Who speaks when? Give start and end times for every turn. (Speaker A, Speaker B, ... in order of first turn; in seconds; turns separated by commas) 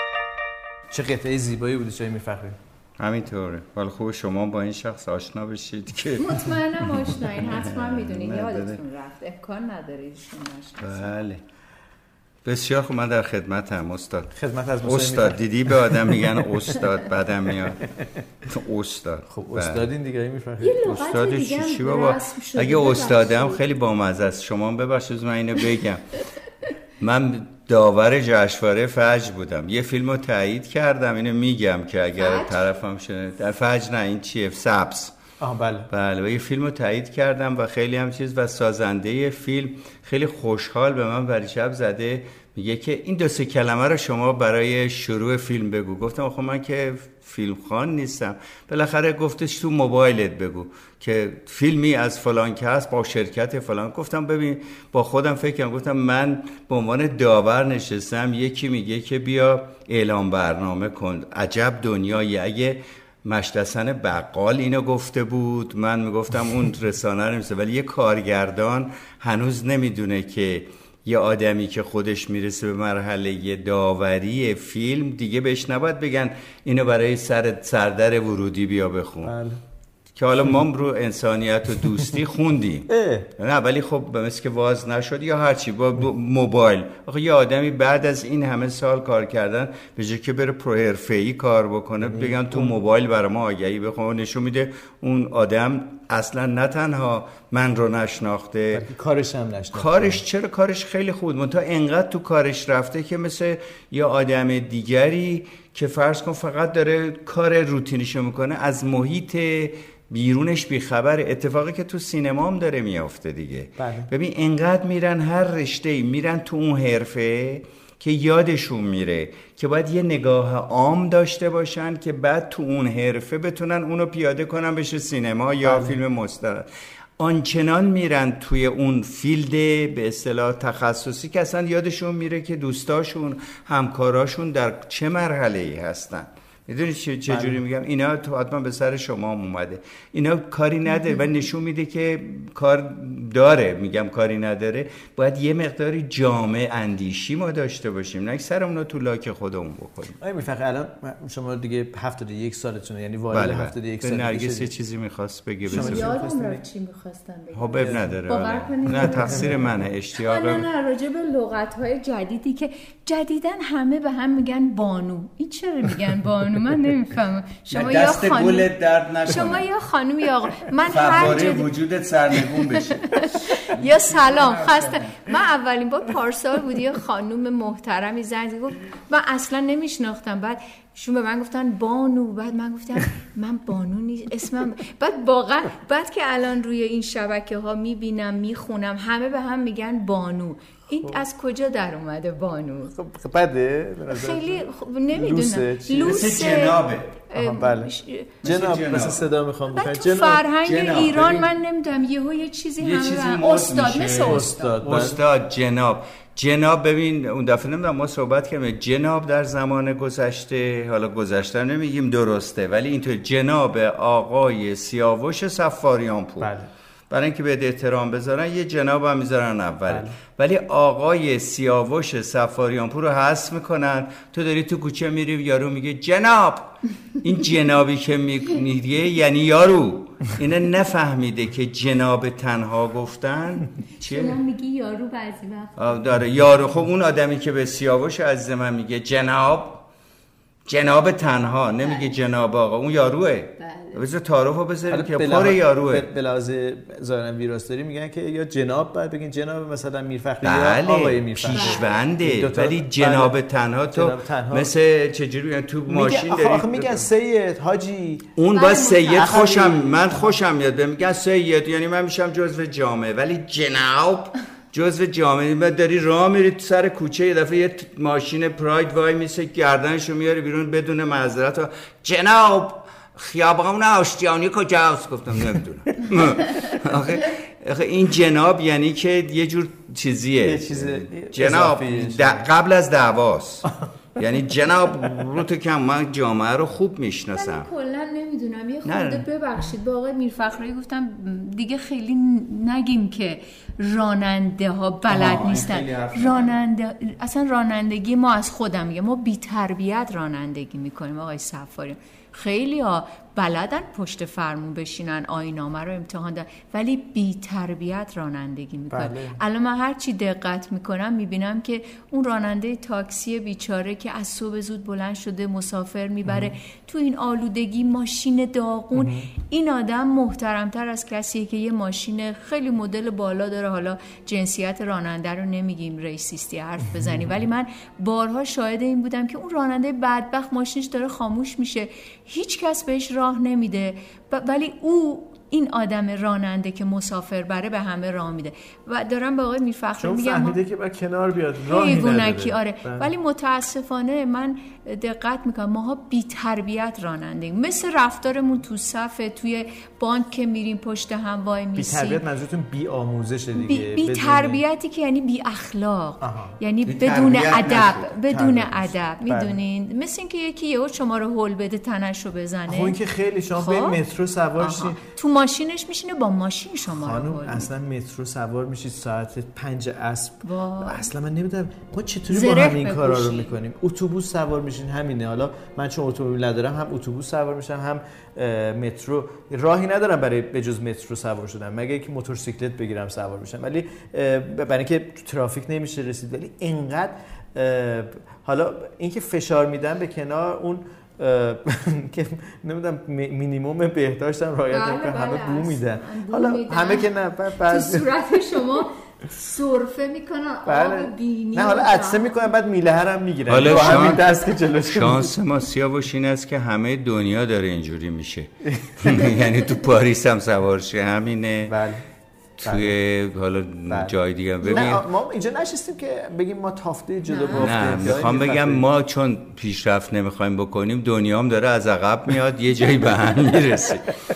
Speaker A: 0.9-2.5, Speaker B: 3.0-6.5, Speaker C: 6.2-11.1, Speaker B: 7.4-8.8, Speaker B: 10.8-11.4, Speaker B: 12.4-17.9, Speaker A: 14.3-16.5, Speaker B: 18.4-19.9, Speaker A: 19.3-20.8, Speaker C: 20.6-23.6, Speaker B: 20.8-26.2, Speaker B: 27.0-35.1, Speaker C: 32.2-32.6, Speaker A: 35.4-35.9, Speaker B: 35.9-79.3, Speaker A: 79.2-79.6, Speaker B: 80.1-98.8, Speaker A: 82.9-83.3, Speaker A: 92.0-92.7, Speaker A: 98.7-100.2, Speaker B: 99.7-126.7, Speaker A: 113.8-114.1, Speaker A: 125.6-126.0, Speaker B: 127.2-150.2, Speaker A: 137.3-137.6, Speaker A: 150.2-154.7, Speaker B: 153.3-156.1, Speaker A: 155.7-156.6, Speaker C: 155.7-168.7, Speaker B: 157.5-160.7, Speaker A: 157.8-158.2, Speaker B: 167.7-169.7, Speaker C: 169.2-171.7, Speaker B: 170.9-175.2, Speaker C: 172.5-192.9, Speaker A: 192.9-196.3, Speaker C: 194.1-198.4, Speaker B: 196.0-197.2, Speaker A: 197.3-197.9, Speaker B: 198.4-199.3, Speaker A: 198.4-200.4, Speaker C: 199.7-204.9, Speaker B: 200.6-201.5, Speaker B: 202.8-216.5, Speaker A: 204.2-205.2, Speaker A: 216.4-216.7, Speaker B: 217.1-234.4, Speaker A: 219.9-220.1, Speaker C: 234.0-235.9, Speaker B: 235.8-239.8, Speaker B: 240.7-246.1, Speaker C: 243.6-244.0, Speaker A: 244.9-253.3, Speaker B: 250.4-257.1, Speaker C: 251.5-252.0, Speaker A: 253.9-254.7, Speaker A: 255.9-258.3, Speaker B: 258.4-287.7, Speaker C: 258.5-259.6, Speaker A: 259.1-260.3, Speaker A: 280.4-282.5, Speaker C: 287.3-340.6, Speaker B: 288.8-289.3, Speaker B: 295.1-296.5, Speaker A: 308.9-309.4, Speaker A: 316.3-316.5, Speaker A: 318.9-319.3, Speaker A: 340.0-343.1, Speaker C: 341.6-352.2, Speaker A: 351.8-354.6, Speaker C: 353.5-363.0, Speaker A: 356.2-356.6, Speaker B: 356.9-358.1, Speaker A: 358.3-359.6, Speaker A: 362.7-365.0, Speaker C: 363.6-364.0, Speaker C: 364.6-367.7, Speaker A: 366.8-398.1, Speaker C: 370.4-371.1, Speaker C: 372.3-373.5, Speaker C: 394.7-397.1, Speaker C: 397.6-402.4, Speaker A: 400.6-405.3, Speaker B: 403.5-411.7, Speaker A: 408.6-409.3, Speaker A: 411.7-412.0, Speaker B: 412.6-415.1, Speaker A: 412.6-412.9, Speaker A: 413.9-418.8, Speaker C: 417.3-418.2, Speaker B: 417.6-424.1